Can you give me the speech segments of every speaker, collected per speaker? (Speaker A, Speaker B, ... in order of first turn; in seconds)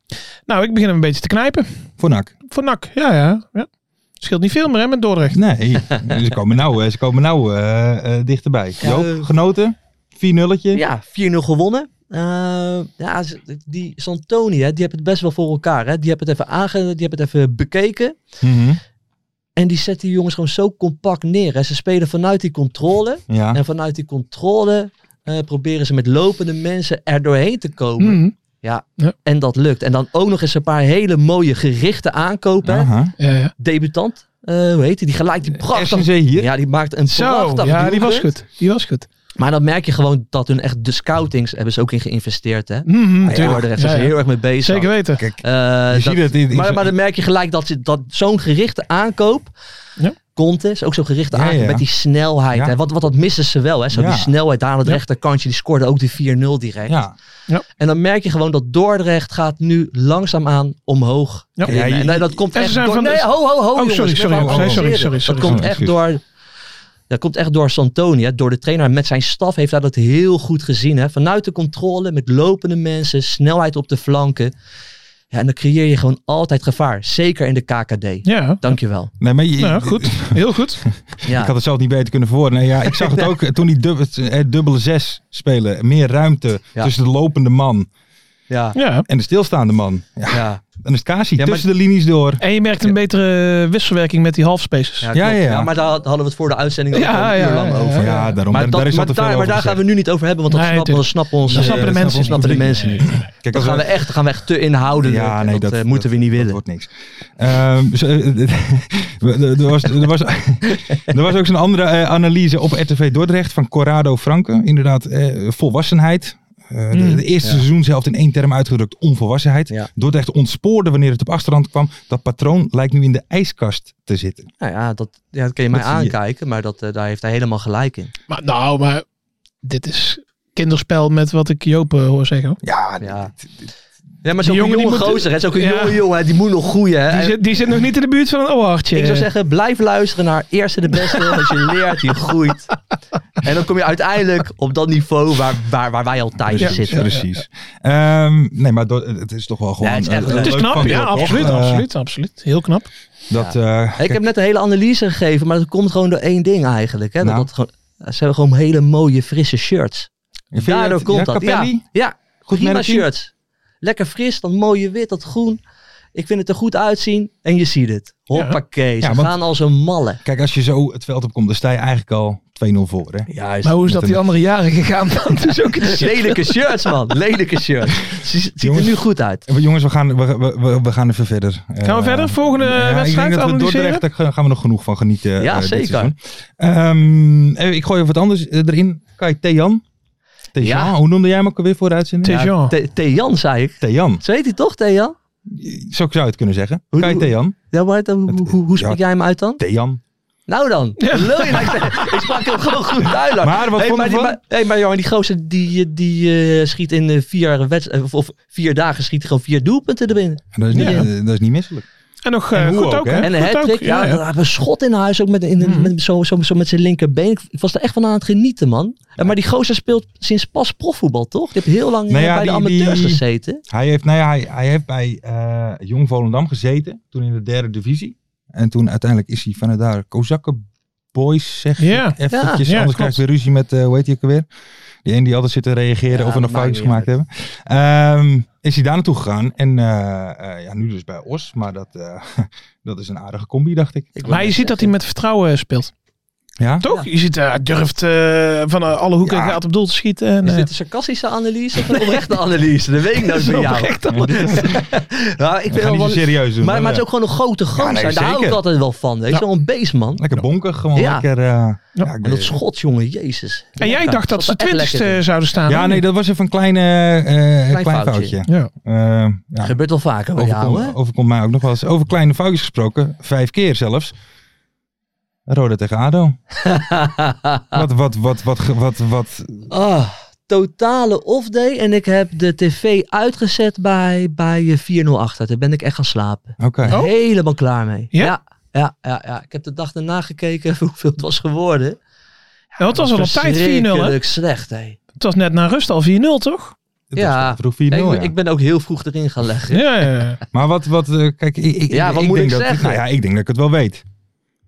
Speaker A: 0.5-1.7, 2.5-3.7, 4.2-5.4, 28.0-28.3, 33.2-33.5, 37.1-39.1, 42.9-45.2, 62.5-65.6, 78.3-78.7, 79.6-80.8, 88.8-89.1, 92.4-95.1, 96.9-98.3, 100.5-103.3, 117.0-117.2, 128.3-129.1, 129.6-132.6, 134.4-136.0, 137.1-139.3, 141.1-141.6, 146.6-147.3, 150.3-152.9, 173.6-176.4, 181.8-184.0, 192.2-192.7, 201.0-202.4, 210.7-211.1, 212.2-214.2, 215.6-215.9, 231.8-233.2, 244.3-245.9, 246.8-250.7, 251.8-252.2, 253.2-254.6, 263.8-266.0, 286.9-287.1, 292.8-294.2, 295.2-296.8, 299.7-300.4
Speaker B: 2.0-2.3, 5.3-10.8, 18.4-18.8, 23.3-23.6, 32.6-33.1, 35.5-36.5, 43.2-43.7, 45.2-46.9, 51.3-51.9, 53.9-54.3, 56.9-57.1, 61.6-62.4, 64.3-66.0, 79.2-80.5, 81.2-87.9, 89.1-92.9, 95.1-95.7, 98.0-99.8, 101.5-103.9, 105.0-124.5, 125.7-126.2, 132.6-133.7, 146.4-151.9, 153.3-154.2, 157.2-157.5, 160.5-161.9, 162.5-163.1, 169.0-169.3, 170.2-173.3, 173.8-174.2, 178.6-189.8, 190.5-192.4, 193.8-194.2, 195.5-197.6, 198.3-199.0, 199.6-200.0, 203.4-204.4, 210.5-211.9, 212.5-213.3, 222.1-230.6, 231.1-234.5, 235.1-244.2, 246.6-246.8, 249.2-249.6, 254.1-254.7, 255.7-257.1, 257.8-258.6, 260.2-262.6, 265.7-269.8, 270.4-274.1, 275.5-276.4, 277.7-279.7, 286.6-286.9, 297.1-298.3, 300.5-304.0
Speaker C: 8.8-9.3, 10.7-18.2, 19.6-32.9, 33.6-38.3, 39.4-49.5, 50.4-57.0, 57.8-66.2, 67.1-74.5, 75.3-79.1, 81.2-81.5, 82.9-83.3, 88.5-88.8, 90.3-90.6, 91.4-91.7, 95.0-106.6, 110.7-111.0, 124.6-128.1, 133.0-133.3, 134.2-137.4, 138.9-142.7, 143.4-147.1, 149.8-151.8, 153.3-163.3, 163.8-165.6, 166.2-170.2, 173.3-173.8, 175.8-179.4, 185.4-186.1, 190.6-190.9, 192.2-195.2, 196.9-199.6, 200.5-211.1, 213.2-223.6, 232.3-232.6, 236.1-237.1, 244.2-244.9, 250.4-260.2, 260.9-261.3, 262.2-265.2, 267.7-268.4, 269.6-271.0, 276.6-277.8, 279.7-292.0, 292.7-295.0, 297.2-299.8, 301.9-303.0